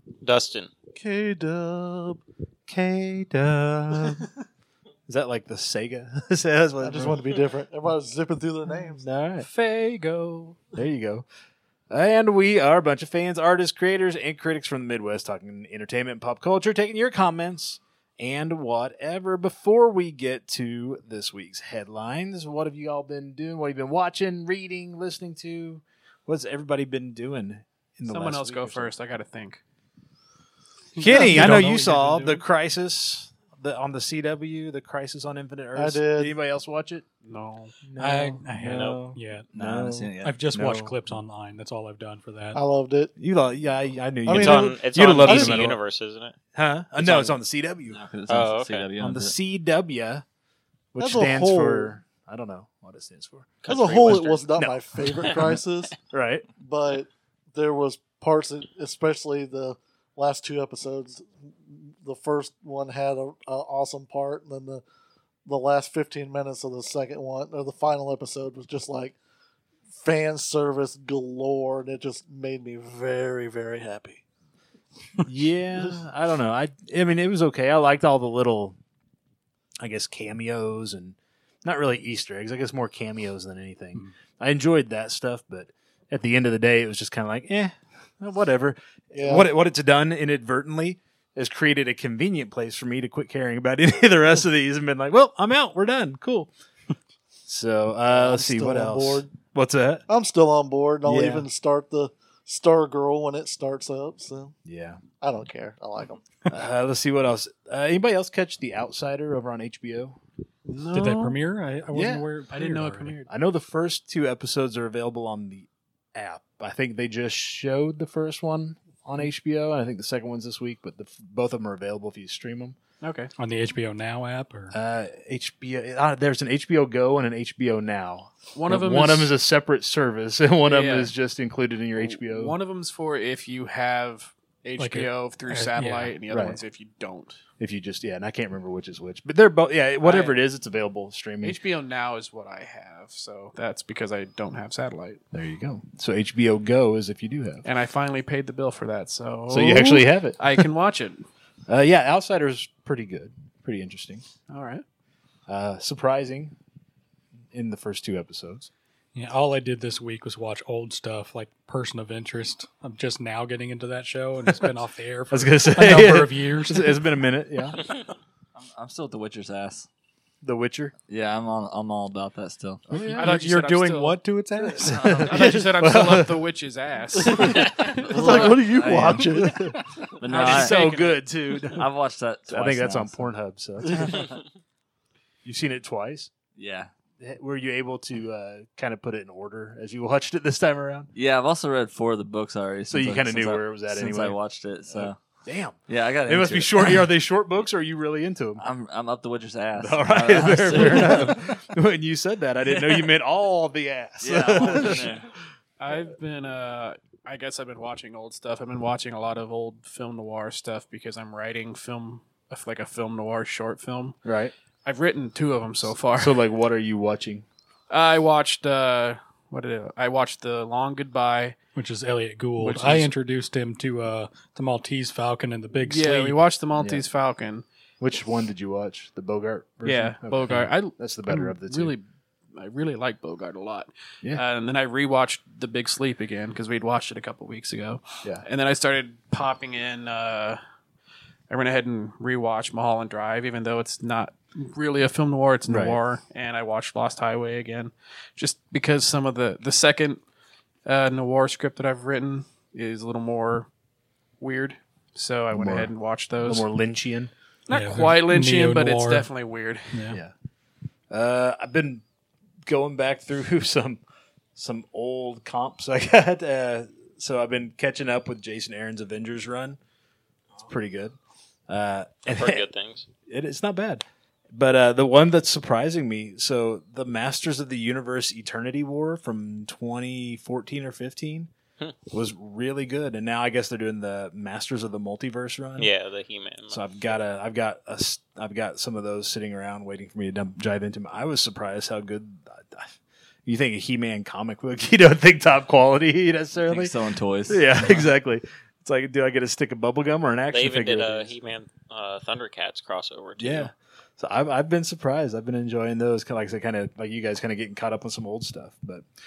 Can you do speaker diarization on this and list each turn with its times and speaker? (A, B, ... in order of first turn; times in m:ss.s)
0:00.2-0:00.7 A
0:01.0-0:02.2 B
0:02.7-0:04.3 C
0:05.1-0:07.2 C
0:06.8-0:09.0 B
0:09.0-0:11.3 C
0:11.9-0:29.0 C
0:28.1-0:29.6 D
0:31.0-0:32.4 D
0:31.0-0:37.0 C
0:31.1-0:32.2 E
0:35.8-0:36.3 B
0:37.2-0:37.7 D
0:37.8-0:40.9 C
0:38.0-0:39.5 E
0:38.7-0:39.0 A
0:39.5-0:40.4 F
0:40.2-0:42.6 E
0:42.5-0:43.1 B
0:43.2-0:45.8 C
0:44.3-0:45.7 B
0:44.3-0:46.3 A
0:46.5-0:48.0 C
0:47.0-0:47.3 A
0:47.9-0:49.3 F
0:48.3-0:48.9 A
0:49.0-0:50.2 C
0:50.9-0:53.6 C
0:51.0-0:52.0 B
0:53.6-0:54.5 A
0:53.6-0:56.0 B
0:54.6-0:55.5 C
0:56.1-0:56.4 C
0:56.6-1:04.8 B
1:05.4-1:09.2 B
1:09.9-1:14.2 B
1:15.2-1:18.8 C
1:19.8-1:36.5 C
1:29.1-1:29.5 B
1:37.5-1:40.0 C
1:38.1-1:39.3 B
1:40.1-1:44.6 B
1:41.0-1:41.5 C
1:44.7-1:45.0 C
1:45.2-1:46.2 B
1:46.5-1:50.2 C
1:50.7-1:51.4 D
1:50.9-1:53.2 E
1:51.9-1:52.3 C
1:52.5-1:53.3 D
1:53.3-2:02.8 C
2:03.0-2:03.3 D
2:03.4-2:04.7 E
2:04.7-2:12.6 C
2:08.5-2:09.3 D
2:10.7-2:11.1 D
2:11.9-2:17.4 D
2:14.8-2:16.1 E
2:16.3-2:16.6 C
2:17.6-2:21.6 C
2:20.0-2:20.4 D
2:21.4-2:25.2 D
2:25.3-2:27.6 C
2:27.6-2:31.3 D
2:29.5-2:30.4 C
2:31.7-2:34.2 C
2:34.5-2:34.8 D
2:35.5-2:36.6 C
2:37.5-2:38.7 C
2:39.2-2:47.0 E
2:44.5-2:44.7 C
2:45.3-2:47.8 C
2:48.6-2:49.9 F
2:50.4-2:50.9 C
2:51.1-2:53.0 F
2:52.9-2:53.3 C
2:53.1-2:55.0 E
2:53.2-2:54.2 D
2:54.8-2:56.4 C
2:54.8-2:55.4 F
2:55.1-2:58.7 D
2:57.2-2:59.6 B
2:58.0-2:59.5 F
2:59.0-3:01.9 C
3:00.2-3:00.7 F
3:00.3-3:01.2 D
3:01.7-3:03.3 F
3:02.5-3:04.2 C
3:03.9-3:04.4 F
3:05.4-3:06.3 C
3:06.6-3:06.9 F
3:07.2-3:11.1 C
3:11.2-3:15.2 F
3:12.9-3:14.4 C
3:14.9-3:18.6 C
3:15.9-3:17.1 F
3:18.6-3:21.6 F
3:19.8-3:25.1 C
3:22.6-3:23.1 F
3:24.2-3:25.3 F
3:25.8-3:34.2 D
3:34.2-3:34.5 C
3:34.8-3:36.4 D
3:36.1-3:37.4 C
3:37.9-3:41.6 D
3:41.8-3:46.4 E
3:42.6-3:43.1 D
3:45.8-3:47.6 D
3:46.8-3:47.0 C
3:48.0-3:52.0 C
3:49.8-4:00.6 D
4:01.5-4:10.2 D
4:05.7-4:06.0 C
4:10.8-4:13.7 D
4:14.4-4:16.6 D
4:15.5-4:17.3 C
4:17.7-4:20.1 D
4:17.7-4:19.2 E
4:19.9-4:20.2 E
4:21.1-4:22.0 C
4:22.6-4:24.0 C
4:24.5-4:29.8 C
4:30.6-4:31.1 C
4:31.7-4:32.6 C
4:32.3-4:33.1 A
4:33.3-4:41.5 C
4:42.1-4:45.9 C
4:45.8-4:47.2 A
4:46.7-4:52.9 C
4:53.5-5:01.3 C
4:56.6-4:58.1 F
5:00.5-5:03.7 A
5:03.4-5:09.0 C